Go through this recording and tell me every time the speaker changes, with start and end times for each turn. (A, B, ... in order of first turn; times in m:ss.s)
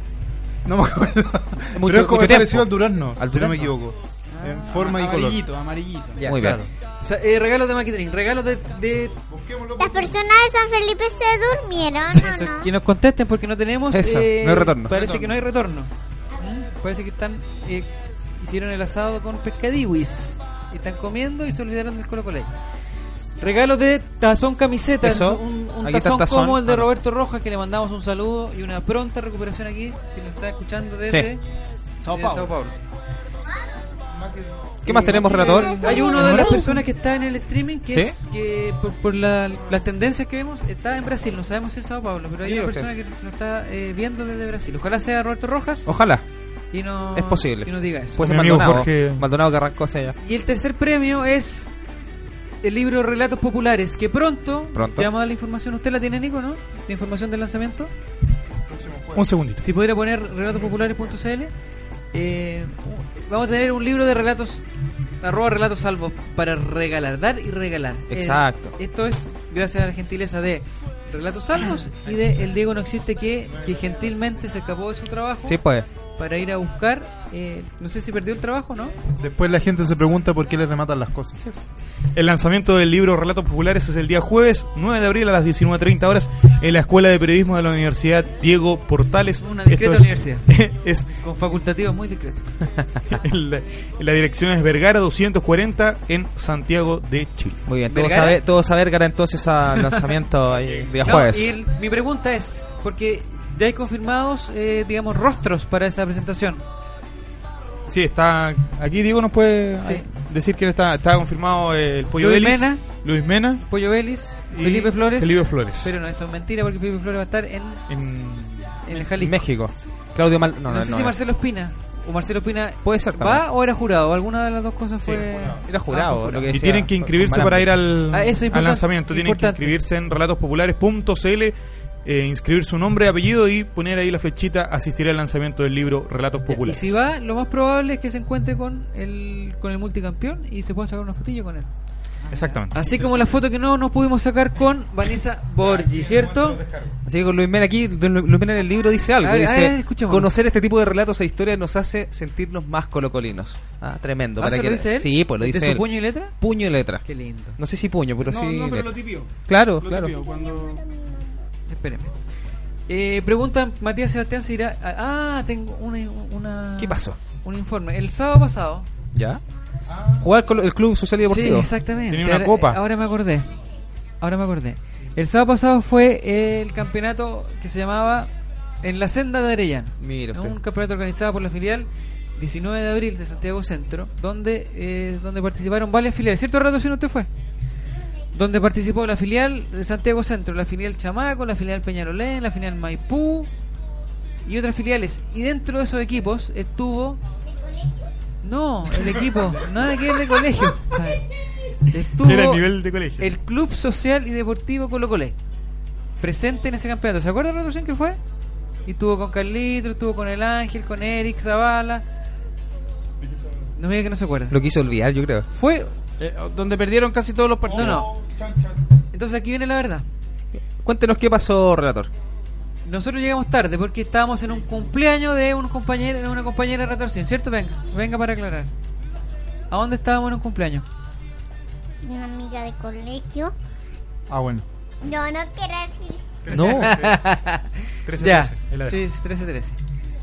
0:00.6-0:05.4 A
0:01.7-0:03.7 B
0:04.4-0:06.2 C
0:06.2-0:06.4 D
0:06.2-0:06.6 B
0:06.3-0:06.7 A
0:07.0-0:09.2 D
0:09.3-0:10.2 A
0:09.8-0:12.7 E
0:12.1-0:22.5 D
0:13.9-0:15.2 B
0:23.4-0:31.4 D
0:25.0-0:26.9 B
0:32.0-0:32.5 C
0:32.1-0:32.8 D
0:34.2-0:34.5 A
0:34.8-0:35.8 B
0:34.8-0:45.8 D
0:35.3-0:36.8 E
0:36.2-0:36.6 C
0:42.4-0:42.9 B
0:45.8-0:46.2 B
0:46.7-0:48.2 D
0:47.1-0:50.2 B
0:48.2-0:49.2 F
0:50.2-0:51.7 D
0:52.6-0:57.9 D
0:54.7-0:55.1 B
0:58.6-0:59.3 A
0:59.1-0:59.6 F
0:59.6-1:01.5 D
1:02.1-1:04.6 D
1:05.2-1:15.6 D
1:08.1-1:08.7 B
1:13.4-1:14.3 A
1:15.4-1:15.8 B
1:16.2-1:19.0 D
1:19.1-1:21.4 A
1:22.1-1:31.1 F
1:29.4-1:30.4 D
1:31.2-1:32.5 D
1:33.1-1:37.6 F
1:37.7-1:41.6 B
1:37.9-1:38.4 D
1:40.6-1:40.9 F
1:41.0-1:46.6 D
1:47.9-1:53.6 F
1:49.8-1:50.0 D
1:52.2-1:52.8 D
1:53.6-1:57.8 D
1:54.5-1:55.9 F
1:57.9-1:58.8 F
1:58.8-1:59.4 D
1:59.1-2:01.1 B
2:00.7-2:06.5 D
2:02.8-2:03.4 B
2:05.6-2:07.7 B
2:06.5-2:17.0 F
2:08.1-2:09.7 D
2:16.5-2:21.7 D
2:22.3-2:23.3 F
2:22.7-2:26.6 D
2:25.6-2:26.9 F
2:27.0-2:37.0 B
2:29.2-2:30.3 D
2:34.4-2:36.3 D
2:37.0-2:37.6 D
2:37.6-2:40.1 B
2:38.2-2:40.8 C
2:40.1-2:41.4 E
2:41.7-2:42.1 D
2:42.9-2:48.9 D
2:46.8-2:47.2 B
2:49.1-2:49.4 B
2:50.2-2:51.7 B
2:51.2-2:53.5 D
2:52.1-2:52.8 F
2:54.2-2:58.3 D
2:58.8-3:07.3 D
3:00.0-3:00.6 B
3:08.3-3:13.5 D
3:14.4-3:17.2 D
3:17.4-3:18.1 E
3:18.4-3:21.2 D
3:19.0-3:19.4 F
3:21.9-3:22.6 D
3:22.2-3:23.3 F
3:23.2-3:25.4 D
3:26.2-3:28.2 D
3:28.8-3:32.0 D
3:33.8-3:34.6 D
3:34.5-3:35.5 B
3:35.5-3:35.9 D
3:36.2-3:38.0 C
3:37.7-3:38.1 D
3:37.7-3:38.3 F
3:39.1-3:40.0 D
3:40.8-3:42.1 B
3:42.8-3:48.7 D
3:49.7-3:50.8 D
3:52.0-3:53.5 E
3:54.3-3:54.6 A
3:55.0-3:56.4 E
3:56.4-3:57.2 F
3:56.5-3:56.9 B
3:56.5-3:59.8 D
3:58.0-3:59.0 F